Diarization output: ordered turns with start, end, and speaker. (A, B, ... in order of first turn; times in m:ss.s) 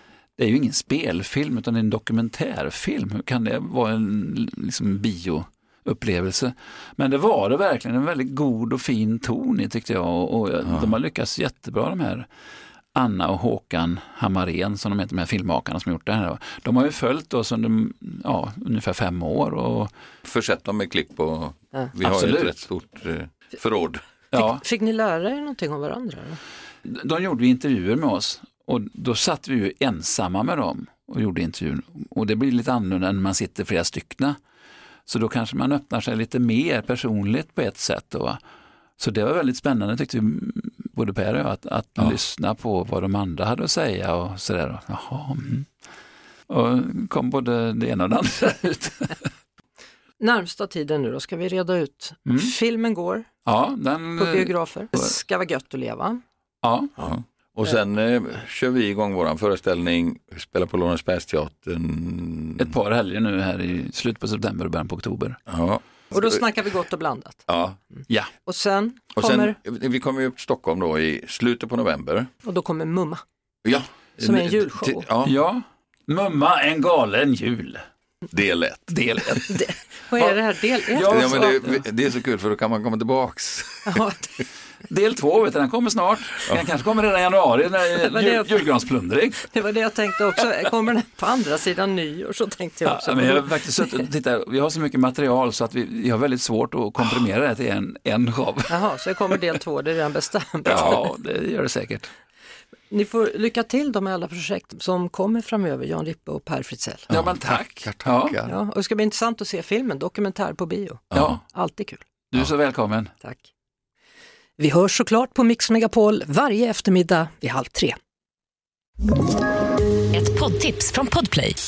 0:00.4-0:12.3 A
0:10.7-0:11.0 B
0:13.0-0:19.9 A
0:20.2-0:24.0 B
0:22.0-0:22.6 A
0:24.3-0:24.6 A
0:24.3-0:26.4 C
0:26.8-0:34.4 A
0:35.1-0:38.4 A
0:39.0-0:45.7 A
0:46.5-0:49.3 A
0:50.2-0:53.3 C
0:52.3-0:52.5 A
0:53.5-0:55.1 A
0:54.2-0:56.2 C
0:56.6-0:56.9 A
0:57.0-1:02.7 B
1:02.6-1:05.4 A
1:05.5-1:06.4 B
1:06.1-1:07.4 C
1:07.5-1:07.8 B
1:08.5-1:09.6 C
1:09.2-1:12.3 B
1:12.4-1:13.2 C
1:13.6-1:15.3 B
1:14.2-1:15.0 C
1:15.2-1:17.8 A
1:18.3-1:19.4 B
1:18.9-1:19.6 A
1:19.5-1:21.5 C
1:20.9-1:21.8 A
1:21.0-1:24.0 B
1:23.9-1:24.3 C
1:24.9-1:29.5 A
1:27.9-1:28.7 C
1:29.5-1:34.1 C
1:32.8-1:38.8 A
1:38.7-1:41.0 C
1:40.6-1:42.1 A
1:42.9-1:47.1 C
1:47.1-1:48.4 A
1:47.1-1:48.6 B
1:48.5-1:52.0 C
1:51.1-1:51.4 B
1:51.1-1:51.4 A
1:52.3-1:53.1 A
1:53.2-1:53.5 C
1:54.6-1:58.0 C
2:00.1-2:01.6 C